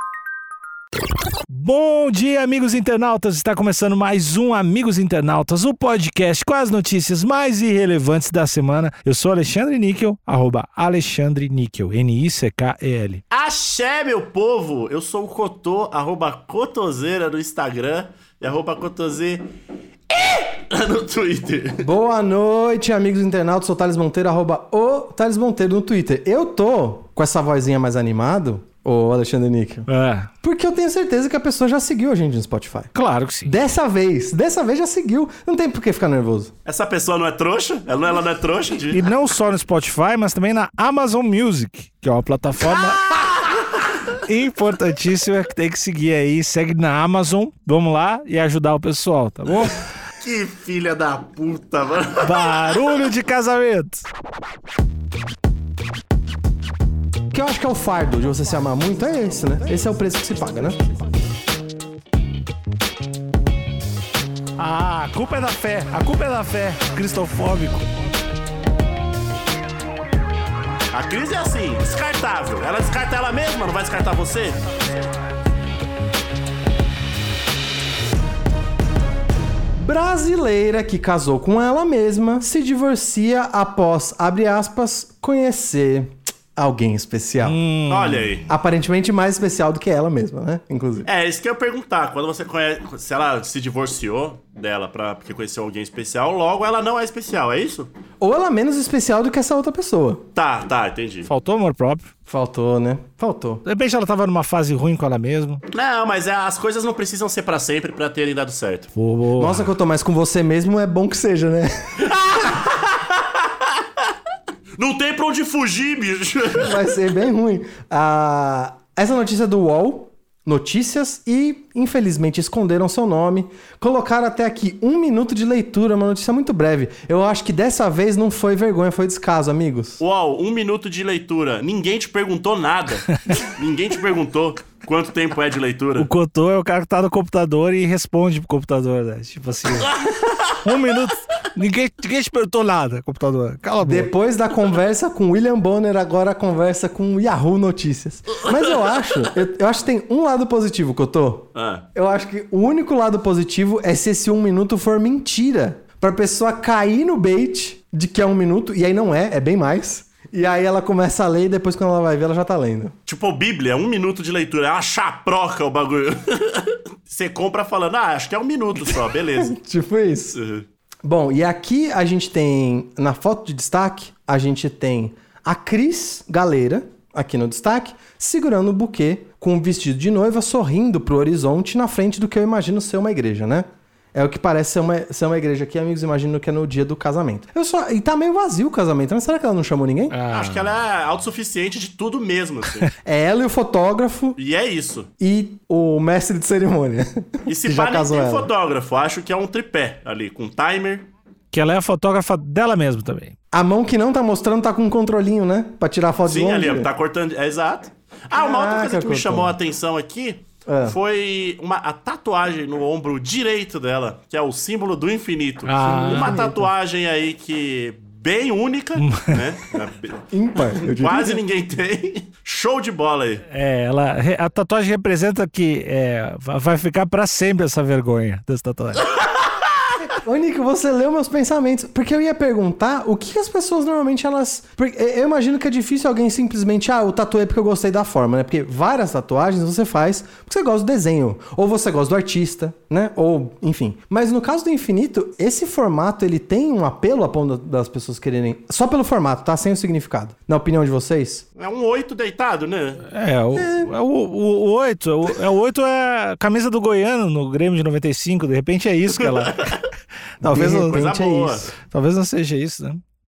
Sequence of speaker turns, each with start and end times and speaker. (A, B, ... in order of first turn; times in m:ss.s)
0:01.5-0:13.2 A
0:13.3-0:19.5 B
0:20.1-0:21.9 B
0:21.8-0:29.9 C
0:29.9-0:30.3 A
0:30.4-0:32.9 C
0:32.9-0:33.6 A
0:33.4-0:36.5 C
0:36.6-0:39.0 B
0:38.9-0:43.4 A
0:42.8-0:43.7 B
0:44.2-0:49.8 A
0:50.2-0:52.6 B
0:52.2-0:54.0 A
0:57.3-1:00.8 C
1:04.6-1:07.9 A
1:10.9-1:14.6 B
1:19.8-1:27.6 C
1:27.4-1:28.3 A
1:27.9-1:28.5 B
1:28.5-1:31.1 C
1:31.1-1:37.9 B
1:38.2-1:40.2 C
1:40.4-1:41.3 B
1:41.3-1:42.1 A
1:42.3-1:43.6 C
1:43.6-1:45.6 A
1:45.7-1:48.9 B
1:49.0-1:49.7 A
1:49.4-1:52.5 C
1:52.1-1:53.5 B
1:54.8-1:56.8 B
1:56.6-2:10.0 C
2:10.0-2:16.1 B
2:16.0-2:20.0 A
2:20.5-2:24.1 A
2:23.8-2:42.9 C
2:31.6-2:31.9 B
2:43.1-2:49.6 B
2:49.3-2:50.4 C
2:50.3-2:50.6 B
2:51.0-3:10.2 C
3:10.1-3:10.7 A
3:10.3-3:12.9 B
3:13.0-3:14.4 C
3:14.4-3:15.1 B
3:15.2-3:18.5 C
3:17.5-3:21.1 B
3:21.5-3:23.4 A
3:23.5-3:26.9 C
3:26.3-3:43.5 B
3:28.3-3:29.6 C
3:30.7-3:31.0 C
3:35.7-3:36.3 A
3:35.8-3:36.7 C
3:39.0-3:39.4 A
3:40.3-3:41.4 C
3:43.5-3:49.1 A
3:50.1-4:11.4 C
4:11.6-4:13.0 B
4:13.1-4:19.7 A
4:13.6-4:13.9 C
4:19.2-4:19.8 B
4:20.4-4:21.7 C
4:20.4-4:21.1 A
4:20.8-4:21.7 B
4:21.9-4:23.0 A